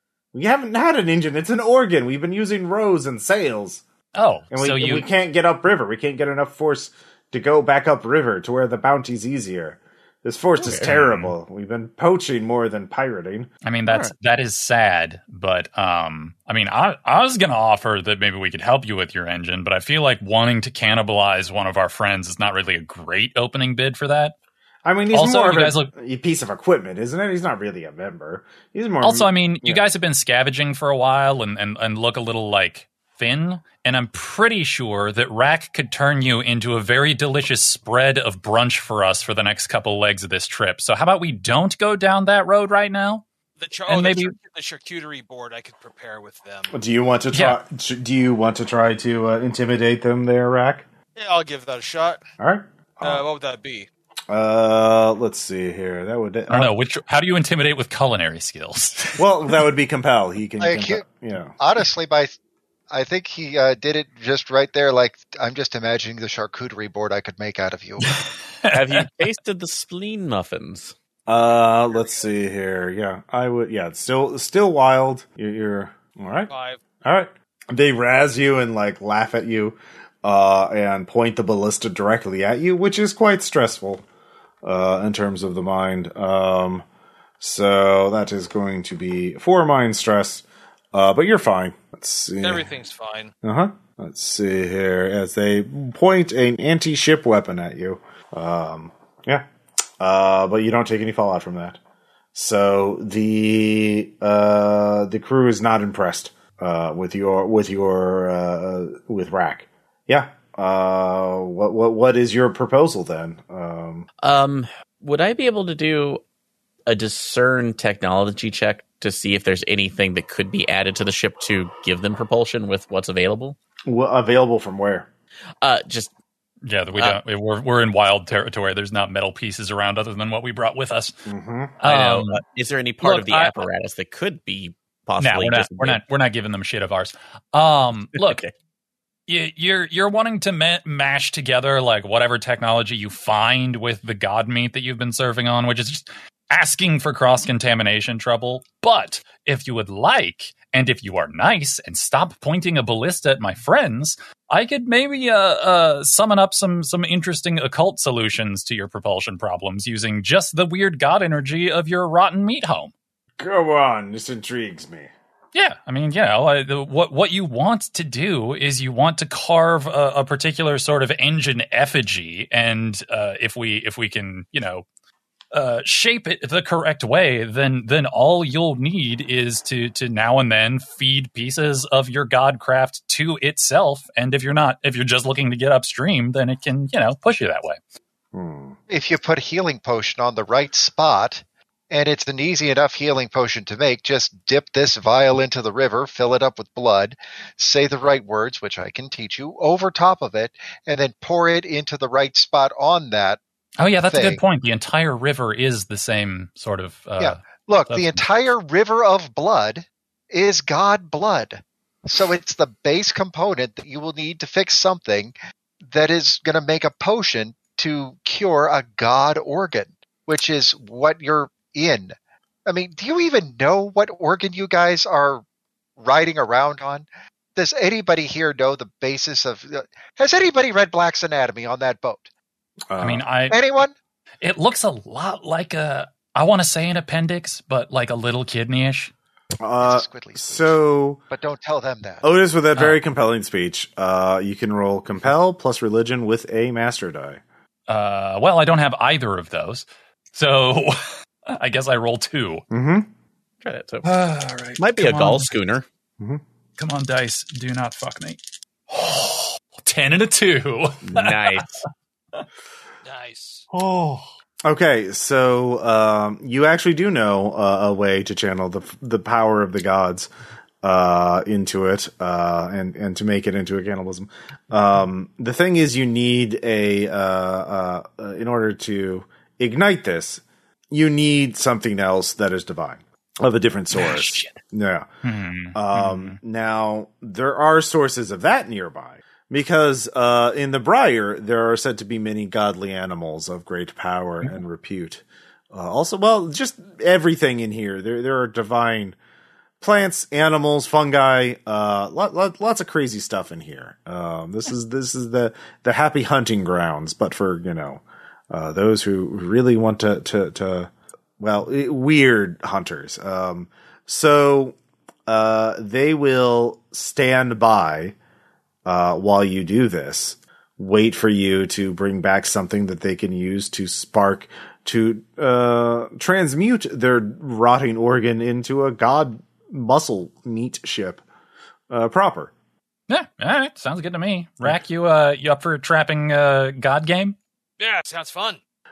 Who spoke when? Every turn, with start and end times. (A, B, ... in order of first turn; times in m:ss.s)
0:00.3-0:03.8 A
0:04.1-0:05.1 B
0:04.5-0:13.5 A
0:10.6-0:10.9 C
0:10.8-0:11.3 B
0:13.6-0:24.3 B
0:13.8-0:14.1 C
0:24.8-0:29.8 A
0:25.1-0:25.9 B
0:29.0-0:43.2 B
0:43.6-0:46.7 D
0:43.9-0:44.4 B
0:46.7-0:50.8 A
0:51.2-0:52.2 D
0:52.4-0:53.2 A
0:53.0-0:53.9 D
0:54.3-0:56.7 A
0:56.5-0:59.2 B
0:59.2-1:01.6 A
1:00.6-1:01.0 E
1:01.6-1:02.4 E
1:02.9-1:08.2 E
1:08.0-1:09.1 B
1:08.7-1:10.9 C
1:11.3-1:16.5 A
1:11.9-1:12.2 D
1:16.5-1:16.8 D
1:17.0-1:24.0 A
1:24.6-1:26.8 A
1:27.4-1:32.7 A
1:32.4-1:33.3 D
1:33.4-1:39.4 A
1:40.0-1:41.8 A
1:42.3-1:54.1 A
1:54.2-1:56.2 C
1:56.9-2:03.6 C
2:03.8-2:05.1 A
2:05.6-2:06.1 C
2:06.6-2:11.1 B
2:11.2-2:11.8 A
2:11.8-2:12.4 B
2:11.8-2:16.0 C
2:13.0-2:13.7 B
2:15.2-2:18.4 B
2:18.1-2:18.5 C
2:19.3-2:42.9 B
2:43.4-2:45.1 A
2:45.5-2:54.8 B
2:55.5-3:07.8 B
3:08.3-3:08.8 A
3:08.9-3:23.4 E
3:23.8-3:28.4 B
3:24.1-3:24.4 E
3:27.2-3:35.3 E
3:35.8-3:42.1 E
3:42.6-3:45.4 E
3:46.0-3:52.3 E
3:52.9-3:53.2 A
3:53.0-3:53.6 B
3:53.5-3:53.9 E
3:54.4-3:59.1 B
3:59.6-4:01.2 A
3:59.8-4:00.8 E
4:01.3-4:02.2 E
4:02.2-4:07.4 A
4:07.9-4:12.6 B
4:12.7-4:13.1 A
4:13.6-4:14.1 C
4:14.0-4:15.5 B
4:14.8-4:15.8 C
4:16.8-4:21.6 B
4:21.1-4:21.8 C
4:23.0-4:23.6 D
4:23.7-4:30.3 A
4:30.8-4:45.1 A
4:43.9-4:44.6 B
4:45.2-4:46.4 B
4:45.7-4:59.2 A
4:59.8-5:18.1 A
5:18.8-5:31.2 A
5:31.9-5:32.5 A
5:33.1-5:37.4 B
5:37.8-5:38.6 D